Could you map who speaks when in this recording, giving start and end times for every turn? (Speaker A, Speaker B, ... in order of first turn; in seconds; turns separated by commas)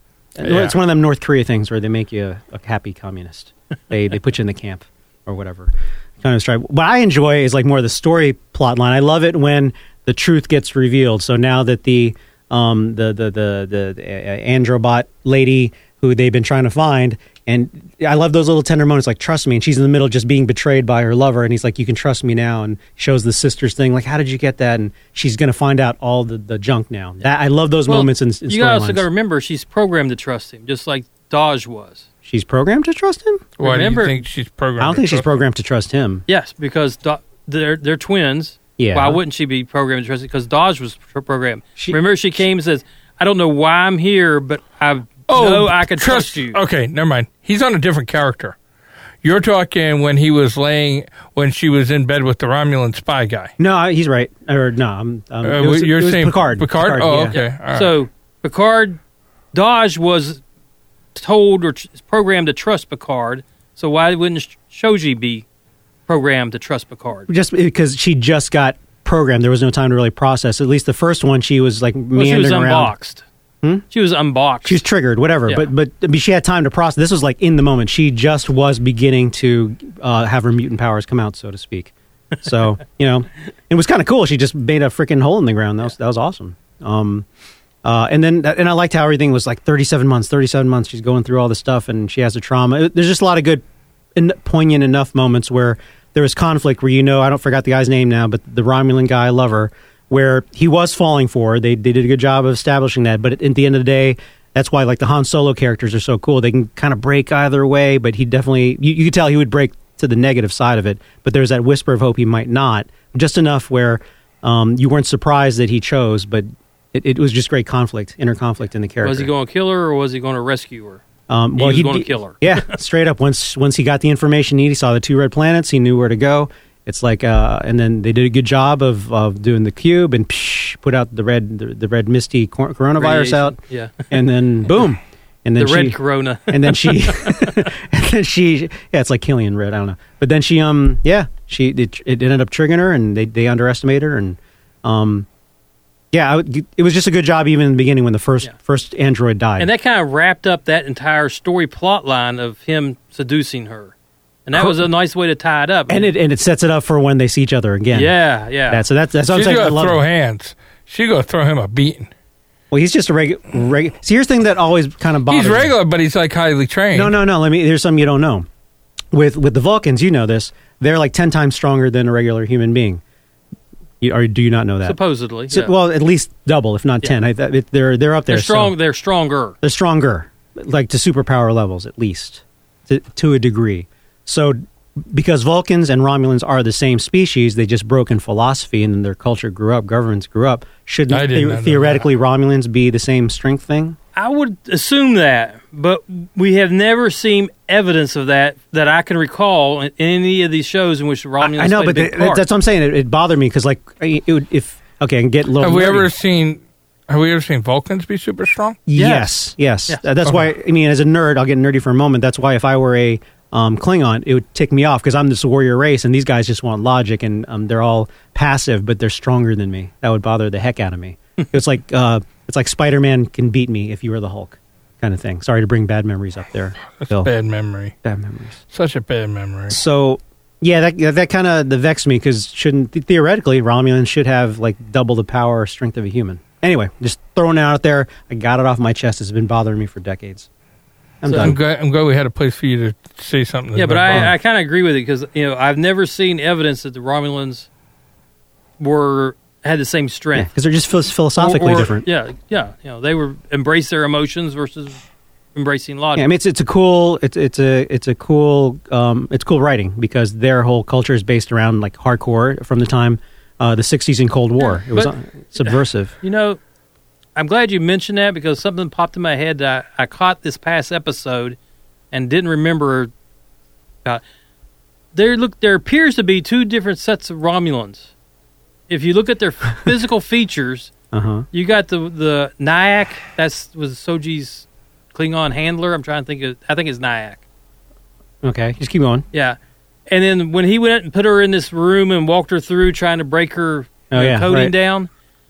Speaker A: 0.4-29.1, Speaker B: 0.4-0.8, Speaker C: 27.9-32.1, Speaker A: 32.2-33.5, Speaker B: 33.6-35.3, Speaker C: 33.6-34.2, Speaker A: 34.8-36.3, Speaker C: 36.3-46.6, Speaker A: 38.8-39.2, Speaker B: 45.3-48.6, Speaker B: 49.2-53.5, Speaker A: 53.6-57.4, Speaker B: 55.4-57.9, Speaker C: 57.3-59.0, Speaker C: 59.5-60.4, Speaker C: 61.1-65.5, Speaker C: 66.1-67.3, Speaker A: 67.3-72.9, Speaker C: 72.2-73.2, Speaker C: 73.9-74.8, Speaker A: 74.6-87.3, Speaker A: 87.8-93.6, Speaker A: 94.2-119.3, Speaker C: 119.0-121.0, Speaker A: 121.3-133.6, Speaker C: 121.6-122.7, Speaker C: 133.0-134.1, Speaker A: 134.1-145.3, Speaker C: 135.6-137.6, Speaker A: 146.1-149.7, Speaker C: 149.6-153.9, Speaker C: 154.5-156.1, Speaker A: 154.6-154.8, Speaker A: 155.9-158.1, Speaker C: 157.9-158.8, Speaker A: 158.7-160.0, Speaker B: 159.3-162.1, Speaker A: 162.7-165.7, Speaker B: 165.3-167.2, Speaker A: 166.9-168.5, Speaker A: 169.1-173.0, Speaker A: 174.0-175.0, Speaker C: 174.8-175.7, Speaker A: 175.5-178.8, Speaker C: 178.3-179.6, Speaker A: 179.6-194.0, Speaker B: 191.1-192.1, Speaker C: 194.2-202.4, Speaker A: 201.4-206.1, Speaker B: 205.6-208.8, Speaker A: 208.9-227.3, Speaker C: 209.0-209.3, Speaker B: 227.0-227.9, Speaker A: 228.0-228.6, Speaker B: 228.7-229.8, Speaker A: 229.7-240.5, Speaker A: 241.2-241.6, Speaker C: 241.2-241.6, Speaker B: 241.4-244.3, Speaker C: 243.8-247.7, Speaker C: 248.8-250.5, Speaker A: 250.3-252.1, Speaker C: 251.4-255.0, Speaker C: 255.6-256.3, Speaker A: 256.2-266.1, Speaker C: 264.6-266.6, Speaker C: 267.4-271.6, Speaker C: 272.1-273.1, Speaker C: 275.1-278.1, Speaker C: 278.9-280.9, Speaker A: 281.1-281.5, Speaker C: 281.5-287.4, Speaker A: 288.4-289.3, Speaker C: 290.1-295.1, Speaker A: 294.1-294.7